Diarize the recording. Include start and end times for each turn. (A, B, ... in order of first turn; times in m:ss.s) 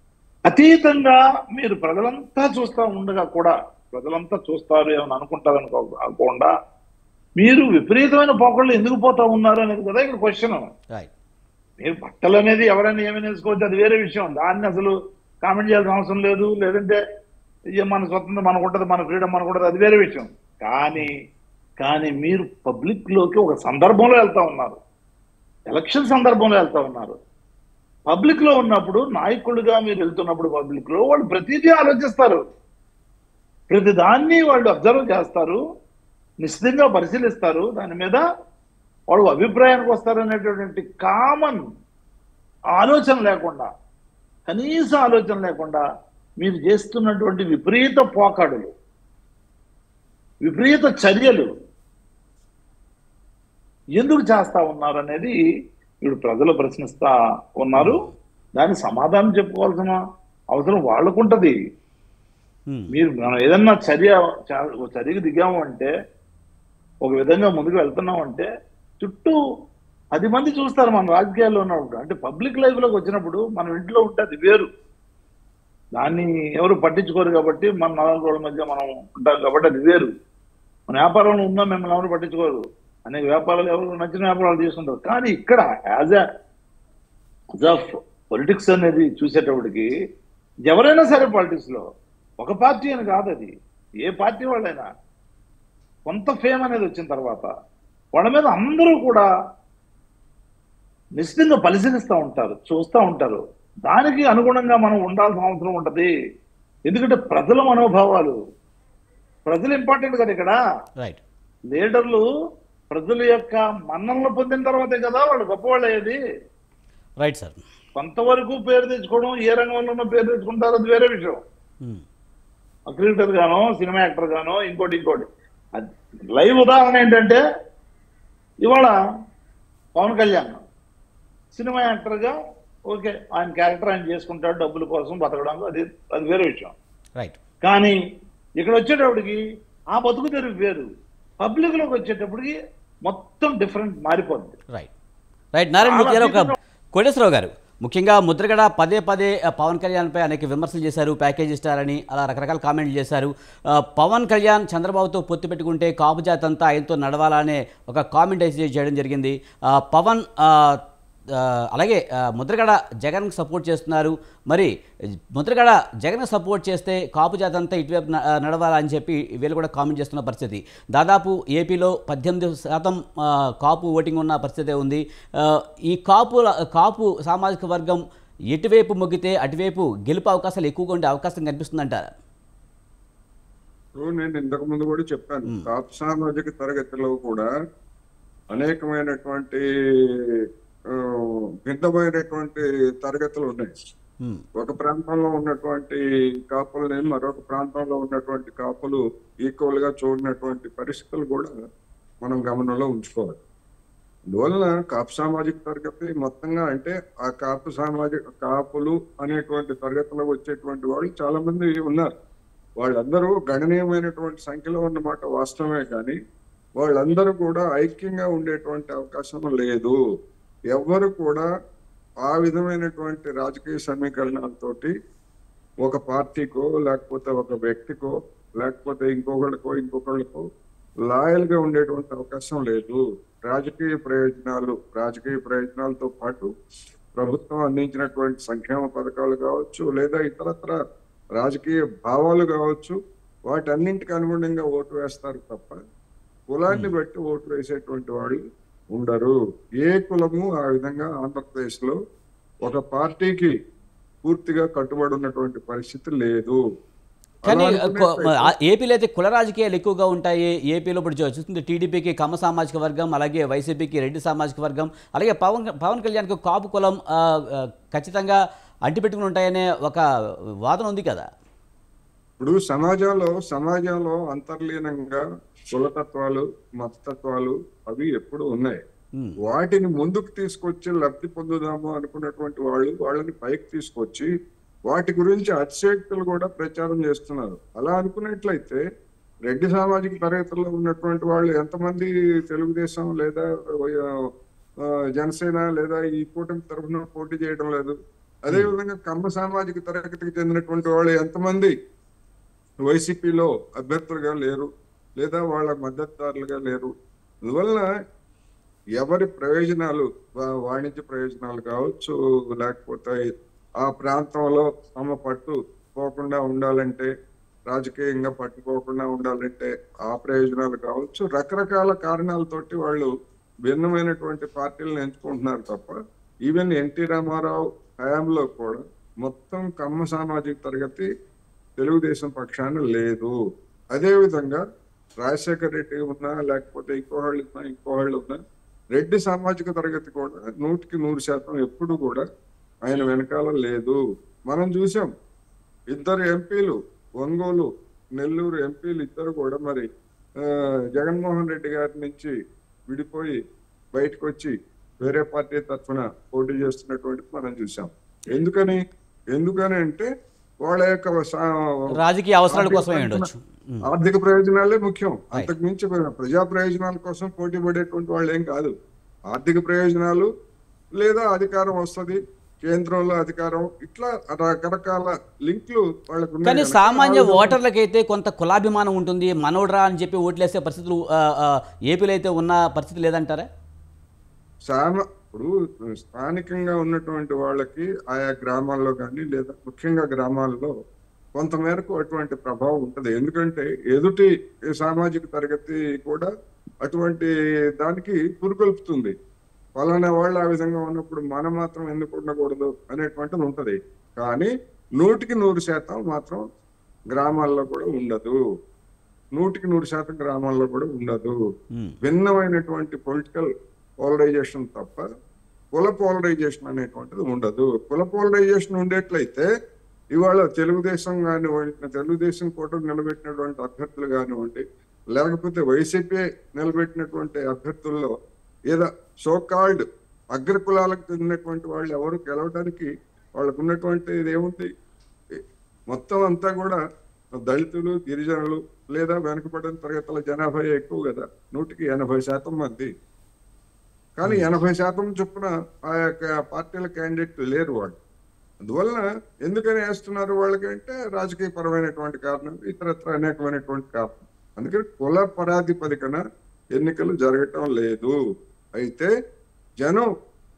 0:00.5-0:06.5 A
0:07.4-0:10.6 A
0:11.8-0:17.0 A
0:17.8-0:21.1 A
0:21.8-0:24.8 A
0:25.7-0:27.2 A
0:28.1-0:32.4 A
0:33.7-0:35.6 A
0:36.4-0:38.2 A
0:39.1-0:41.6 A
0:42.8-0:43.7 A
0:44.5-0:45.8 A
0:46.4-0:48.7 A
0:50.4-0:51.5 A
0:54.0-0:55.3 A
0:56.0-0:58.0 A
0:57.8-0:58.2 B
0:58.6-1:00.0 A
1:00.5-1:01.6 A
1:02.9-1:05.9 A
1:07.0-1:08.5 A
1:09.0-1:09.4 A
1:10.1-1:14.7 A
1:16.0-1:20.1 A
1:20.9-1:26.2 A
1:27.6-1:29.9 A
1:30.7-1:31.8 A
1:32.4-1:34.9 A
1:36.1-1:37.5 A
1:38.1-1:39.2 A
1:41.2-1:46.1 A
1:46.9-1:48.4 A
1:49.5-1:50.6 A
1:51.7-1:52.2 A
1:52.9-1:56.2 A
1:57.2-1:57.6 B
1:58.0-2:01.4 A
2:02.9-2:07.4 A
2:08.6-2:08.9 A
2:10.0-2:10.6 A
2:11.5-2:12.3 A
2:12.9-2:16.7 A
2:17.6-2:18.0 A
2:18.6-2:19.4 A
2:19.9-2:20.8 A
2:21.4-2:22.5 A
2:23.0-2:24.6 A
2:25.5-2:40.8 B
2:25.8-2:26.5 A
2:41.3-2:44.7 B
2:45.3-2:58.0 B
2:58.5-3:02.1 B
3:04.0-3:07.5 C
3:08.5-3:09.6 C
3:11.6-3:13.7 C
3:14.6-3:21.5 C
3:22.2-3:23.4 C
3:24.3-3:32.1 C
3:32.8-3:36.2 C
3:36.8-3:40.0 C
3:40.7-3:41.5 C
3:42.2-3:44.9 C
3:45.8-3:50.4 C
3:51.1-3:56.5 C
3:57.2-4:00.8 C
4:01.4-4:03.0 C
4:03.5-4:05.8 C
4:06.5-4:08.4 C
4:06.7-4:06.9 B
4:08.9-4:12.0 C
4:12.6-4:13.5 C
4:14.2-4:16.6 C
4:17.5-4:18.5 C
4:17.5-4:30.0 B
4:30.6-4:31.2 B
4:32.4-4:38.8 C
4:39.4-4:44.3 C
4:44.9-4:48.8 C
4:49.5-4:54.0 C
4:55.2-5:01.7 C
5:02.8-5:04.7 C
5:05.2-5:06.9 C
5:07.5-5:07.9 C
5:09.0-5:13.2 C
5:13.8-5:17.1 C
5:17.7-5:23.1 C
5:23.7-5:25.9 C
5:26.5-5:31.1 C
5:31.8-5:33.3 C
5:33.9-5:34.6 C
5:35.2-5:38.4 C
5:38.9-5:42.2 C
5:42.8-5:44.0 C
5:44.5-5:45.1 C
5:45.9-5:49.8 C
5:51.0-5:52.3 C
5:52.9-5:53.4 C
5:53.9-5:58.8 C
5:59.3-6:00.1 C
6:00.6-6:01.5 C
6:02.0-6:03.8 B
6:02.5-6:03.3 C
6:03.9-6:08.7 C
6:09.3-6:10.3 C
6:11.0-6:17.6 C
6:16.4-6:23.5 B
6:24.7-6:30.7 C
6:31.4-6:36.3 C
6:36.8-6:39.1 C
6:39.8-6:46.4 C
6:47.1-6:48.4 C
6:49.4-6:51.3 C
6:52.0-6:53.5 C
6:54.0-6:55.0 C
6:55.7-6:59.5 C
7:00.1-7:08.1 C
7:08.7-7:14.7 C
7:15.9-7:16.8 C
7:17.4-7:22.9 C
7:24.2-7:28.0 C
7:28.6-7:36.2 C
7:36.8-7:38.1 C
7:38.8-7:39.1 C
7:39.8-7:40.1 C